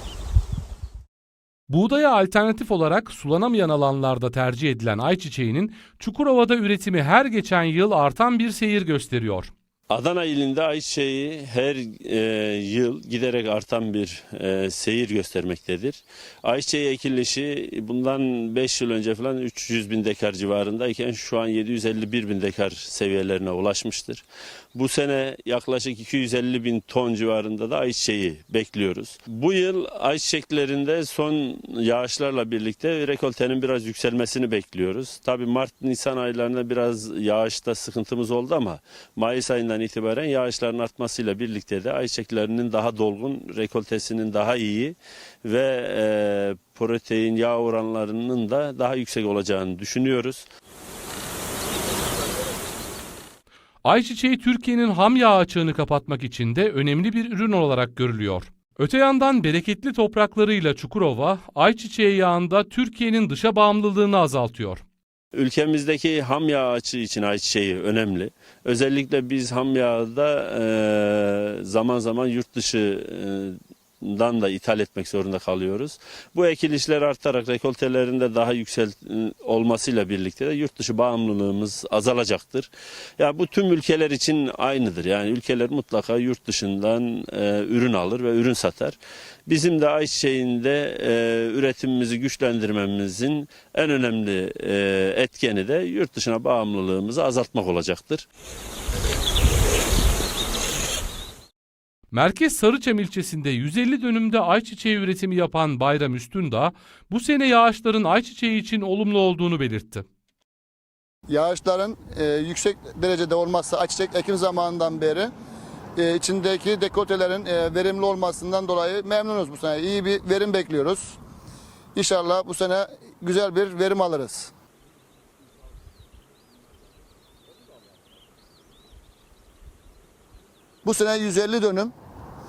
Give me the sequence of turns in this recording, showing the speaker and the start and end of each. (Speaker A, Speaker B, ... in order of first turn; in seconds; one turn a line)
Speaker A: 1.7-9.5
Speaker B: 9.9-24.2
Speaker B: 24.7-50.5
Speaker A: 53.8-64.8
Speaker B: 65.3-98.2
Speaker A: 102.1-110.0
Speaker C: 111.3-115.3
Speaker C: 116.0-121.2
Speaker C: 121.9-124.5
Speaker C: 130.8-131.9